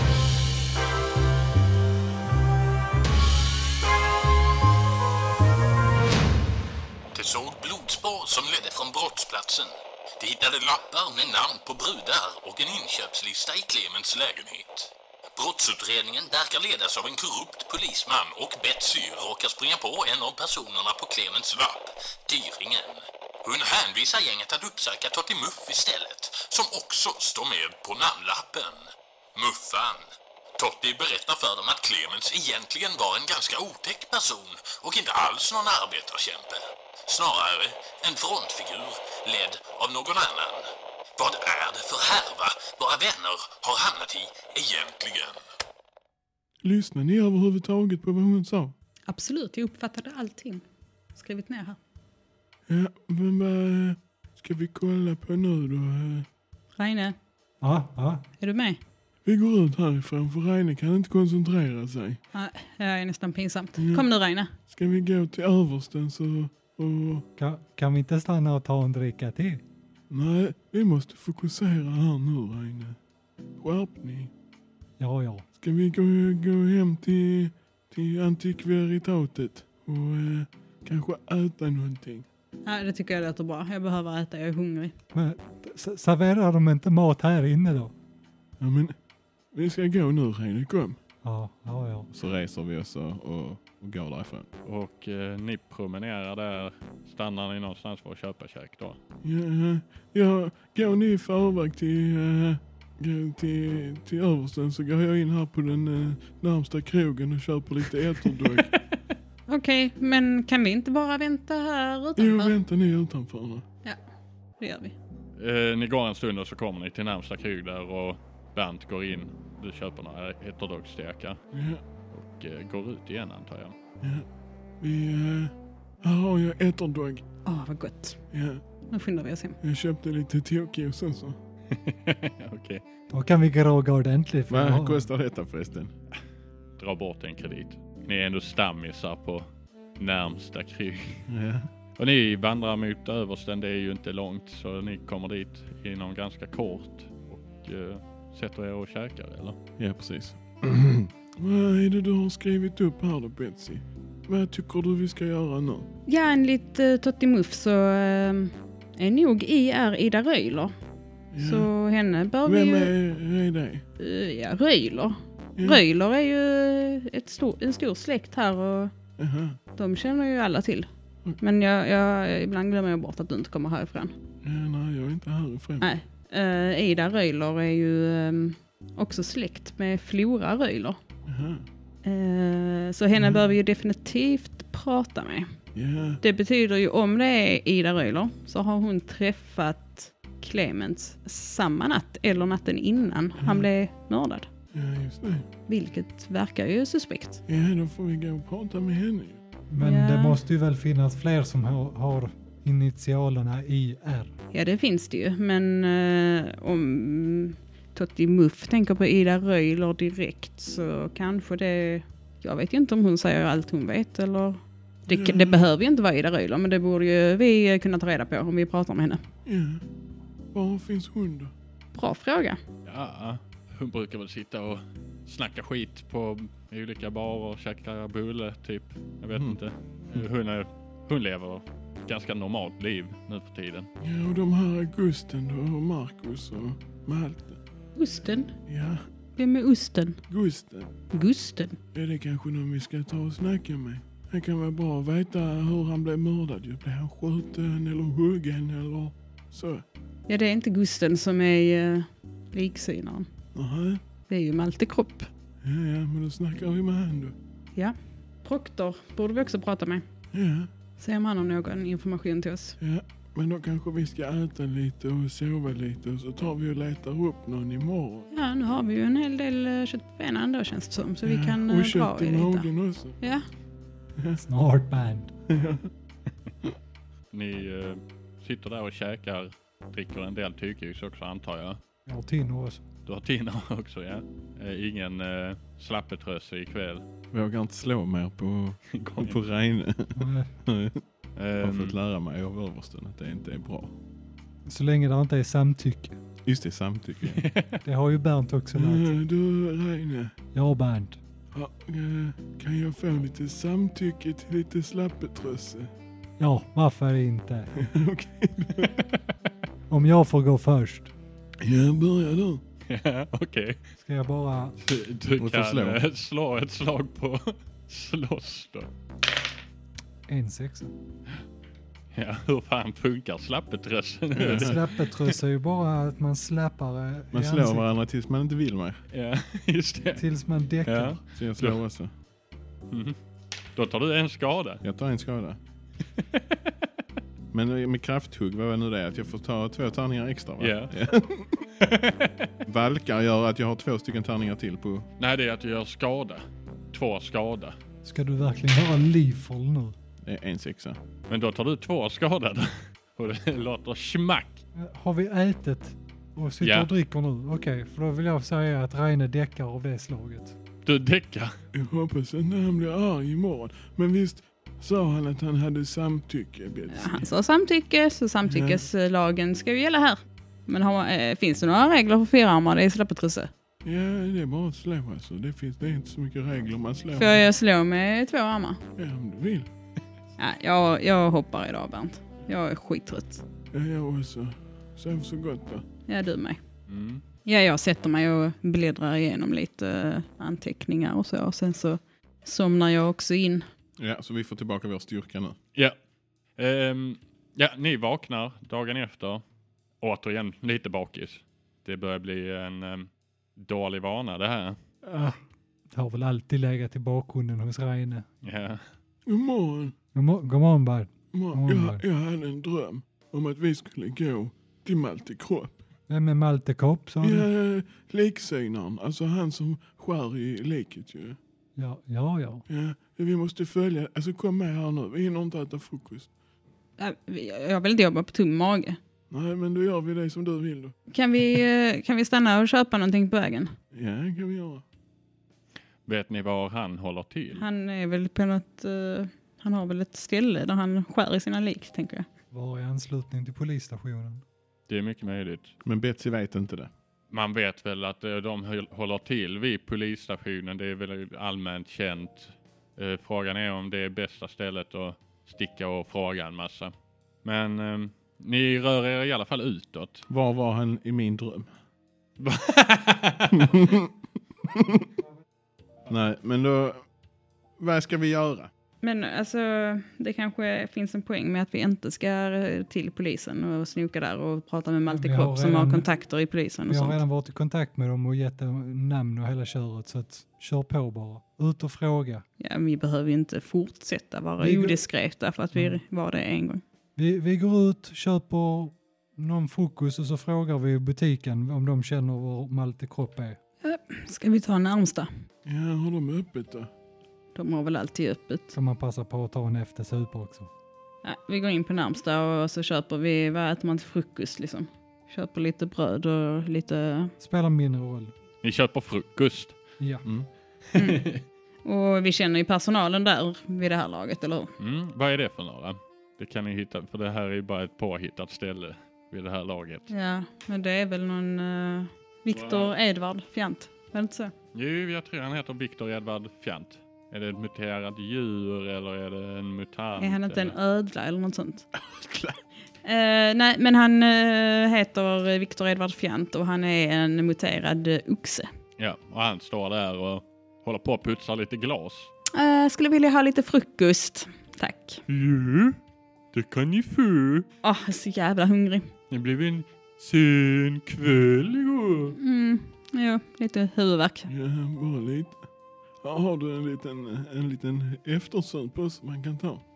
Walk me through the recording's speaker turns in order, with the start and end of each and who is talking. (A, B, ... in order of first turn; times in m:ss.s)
0:07.1-0:30.1 A
0:30.6-0:45.4 A
0:46.6-0:48.8 B
0:49.1-0:50.6 C
0:51.2-0:51.8 C
0:52.7-0:56.3 B
0:56.8-0:57.2 C
0:57.6-0:58.2 D
0:58.4-0:58.8 C
0:59.2-1:02.2 B
1:02.3-1:04.6 C
1:03.8-1:04.0 B
1:04.7-1:07.3 B
1:07.4-1:09.6 D
1:10.1-1:13.0 B
1:13.6-1:14.3 B
1:15.0-1:15.5 D
1:15.6-1:22.3 B
1:22.7-1:24.9 C
1:25.1-1:27.9 D
1:28.6-1:29.0 B
1:29.5-1:31.0 B
1:31.2-1:32.1 D
1:32.1-1:34.5 E
1:34.6-1:39.0 F
1:39.2-1:48.8 B
1:48.4-1:49.0 F
1:49.5-1:52.6 C
1:52.2-1:53.6 B
1:54.6-1:55.0 C
1:55.4-2:01.4 F
2:01.5-2:01.8 B
2:02.1-2:03.7 F
2:04.0-2:04.3 B
2:04.8-2:07.2 B
2:07.5-2:08.2 C
2:08.3-2:08.6 B
2:08.9-2:09.6 C
2:09.6-2:11.4 B
2:11.7-2:12.8 F
2:13.1-2:15.1 D
2:14.5-2:15.9 E
2:16.8-2:21.3 F
2:21.3-2:21.7 E
2:22.0-2:29.6 F
2:29.8-2:31.1 E
2:31.4-2:35.9 B
2:36.1-2:40.7 C
2:41.3-2:41.7 B
2:41.4-2:43.0 C
2:42.4-2:43.8 B
2:44.0-2:48.9 C
2:45.6-2:45.8 B
2:49.2-2:49.6 B
2:49.8-2:50.9 C
2:51.4-2:54.1 C
2:54.4-2:55.9 B
2:55.8-3:01.0 C
3:01.3-3:01.6 B
3:02.0-3:05.5 C
3:03.2-3:03.5 B
3:05.7-3:06.2 B
3:06.2-3:14.5 C
3:13.4-3:13.7 B
3:14.7-3:15.5 B
3:15.7-3:17.4 C
3:17.5-3:19.4 B
3:19.7-3:24.3 D
3:19.8-3:20.4 C
3:24.5-3:39.2 C
3:35.1-3:35.6 B
3:39.5-3:39.8 B
3:40.5-3:41.5 B
3:42.0-3:42.6 C
3:42.8-3:53.9 F
3:54.0-3:57.6 B
3:58.0-3:58.6 C
3:58.7-3:59.0 B
3:59.4-4:00.2 C
4:00.3-4:00.9 B
4:01.1-4:01.8 C
4:01.9-4:09.8 B
4:10.3-4:13.3 C
4:13.6-4:14.0 B
4:14.3-4:15.3 C
4:15.6-4:17.4 B
4:17.8-4:20.1 C
4:20.3-4:20.7 B
4:21.0-4:22.8 C
4:22.8-4:28.3 B
4:28.3-4:32.7 C
4:31.2-4:33.2 B
4:34.2-4:34.4 B
4:34.4-4:35.3 D
4:35.5-4:35.9 B
4:37.3-4:41.8 F
4:42.1-4:42.8 D
4:43.1-4:47.0 F
4:47.3-4:51.0 E
4:48.9-4:49.4 F
4:50.2-4:50.5 D
4:51.4-4:52.0 F
4:51.6-4:53.9 E
4:54.7-4:56.2 D
4:56.4-4:57.4 E
4:57.2-4:57.8 F
4:57.8-4:59.2 D
4:58.8-5:00.3 B
5:00.5-5:01.2 D
5:01.5-5:05.9 B
5:06.4-5:07.7 D
5:07.8-5:08.9 B
5:08.8-5:09.2 F
5:09.9-5:11.1 D
5:11.6-5:12.6 B
5:12.9-5:13.8 F
5:14.0-5:14.8 D
5:14.8-5:18.9 F
5:15.4-5:16.0 E
5:20.3-5:20.9 D
5:22.1-5:25.4 F
5:24.4-5:24.8 E
5:24.4-5:27.9 D
5:27.3-5:29.0 E
5:29.1-5:30.3 F
5:30.2-5:31.2 D
5:30.8-5:31.8 F
5:31.4-5:32.1 E
5:32.9-5:33.2 F
5:33.8-5:34.8 F
5:34.8-5:35.6 E
5:36.2-5:36.7 F
5:37.5-5:41.4 E
5:40.6-5:40.9 F
5:41.8-5:42.5 F
5:42.6-5:45.1 E
5:45.2-5:47.8 F
5:48.0-5:50.0 D
5:50.2-5:51.0 E
5:51.3-5:54.6 F
5:54.7-6:00.6 D
5:56.6-5:56.9 F
6:00.8-6:01.6 F
6:01.7-6:07.3 B
6:06.9-6:13.5 C
6:08.5-6:08.8 B
6:13.8-6:17.4 B
6:17.2-6:18.8 C
6:19.0-6:19.7 B
6:20.4-6:23.4 C
6:23.7-6:25.8 B
6:26.1-6:26.6 C
6:26.9-6:27.2 F
6:27.4-6:33.7 C
6:34.0-6:35.6 E
6:36.6-6:39.4 F
6:40.0-6:44.8 F
6:45.0-6:45.4 D
6:45.9-6:48.3 D
6:48.4-6:48.8 F
6:49.3-6:49.9 B
6:50.1-6:52.0 D
6:51.3-6:55.8 B
6:56.1-6:57.5 D
6:57.2-7:01.4 B
7:01.8-7:02.6 D
7:02.7-7:06.3 B
7:07.0-7:09.0 C
7:09.3-7:10.9 B
7:11.1-7:13.7 C
7:13.9-7:14.8 B
7:16.1-7:17.6 F
7:17.6-7:22.3 C
7:22.5-7:24.4 D
7:24.9-7:25.8 F
7:25.8-7:26.9 E
7:27.3-7:36.9 F
7:37.4-7:40.3 F
7:40.3-7:41.7 E
7:42.4-7:43.9 F
7:43.6-7:44.1 E
7:44.7-7:45.1 E
7:46.1-7:47.0 E
7:47.8-7:48.7 E
7:49.0-7:57.2 C
7:55.1-7:56.0 D
7:56.9-8:02.4 D
8:02.6-8:06.8 C
8:04.6-8:05.0 D
8:05.8-8:06.0 D
8:07.2-8:13.6 D
8:13.8-8:15.3 C
8:15.6-8:16.9 B
8:17.6-8:18.8 C
8:18.7-8:20.7 D
8:21.2-8:27.3 C
8:27.4-8:28.3 D
8:28.6-8:29.8 F
8:30.0-8:30.2 D
8:30.9-8:31.4 F
8:31.0-8:31.2 C
8:31.8-8:34.7 C
8:34.8-8:40.1 F
8:40.1-8:44.5 C
8:42.5-8:42.9 F
8:44.7-8:50.8 F
8:50.2-8:51.9 C
8:52.2-8:52.5 B
8:53.0-8:58.7 C
8:59.0-9:02.3 F
9:02.5-9:05.2 C
9:05.3-9:06.0 F
9:06.5-9:07.7 F
9:07.8-9:09.1 C
9:09.3-9:12.4 F
9:12.4-9:14.5 C
9:14.5-9:15.6 B
9:16.2-9:19.8 B